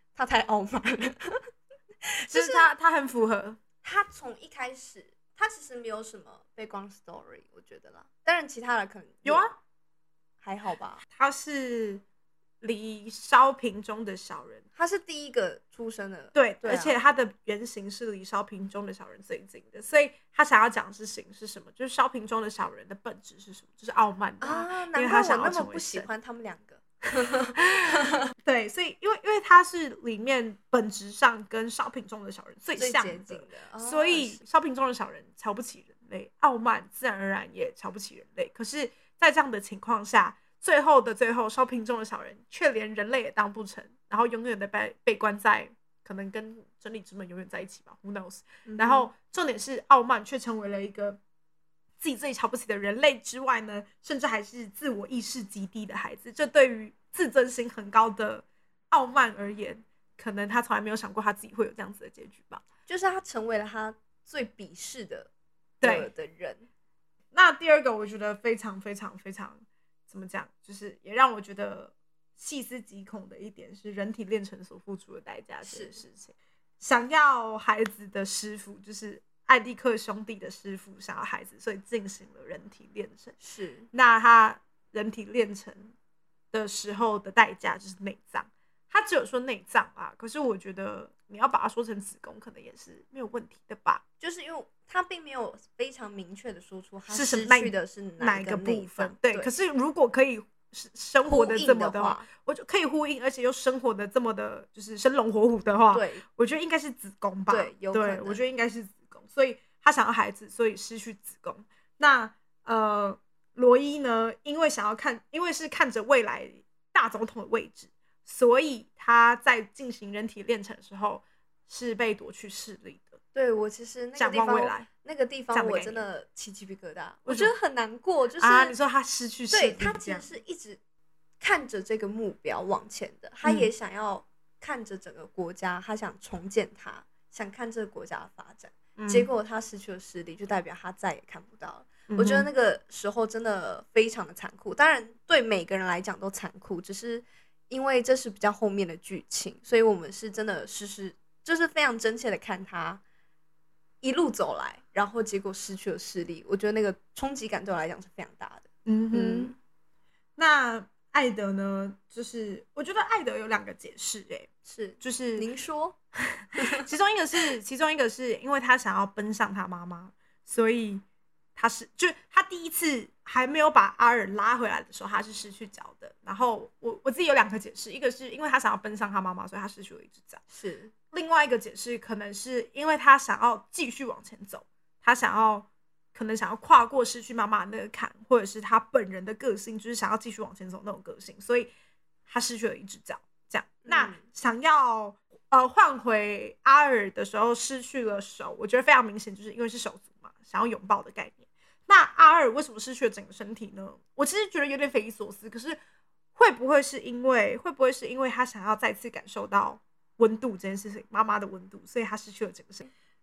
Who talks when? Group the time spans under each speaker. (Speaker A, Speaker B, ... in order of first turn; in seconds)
Speaker A: 0.1-1.4, 2.1-2.7, 3.8-9.5, 10.4-11.0, 14.8-16.9, 24.4-28.3, 32.8-34.4, 48.6-49.1, 62.9-65.3, 65.8-66.7, 75.6-76.0, 83.4-83.9, 94.2-99.5, 101.2-102.3, 105.9-106.2, 107.5-108.4, 123.3-128.8, 129.5-130.8, 131.4-153.0, 154.0-159.5, 164.6-165.9, 166.6-166.9, 180.5-180.9, 193.8-194.2
Speaker B: 2.3-3.6, 9.2-9.5, 11.1-12.0, 12.6-14.6, 16.3-26.1, 27.7-51.2, 52.0-62.6, 65.8-66.1, 67.3-83.3, 83.9-85.9, 86.5-94.0, 97.1-123.2, 124.2-124.9, 125.5-126.0, 127.2-127.5, 128.4-130.3, 133.4-133.7, 139.0-139.3, 142.1-142.5, 158.8-159.5, 160.4-164.5, 165.0-165.5, 166.3-171.0, 171.6-180.4, 181.1-191.7, 192.3-205.8, 206.3-212.9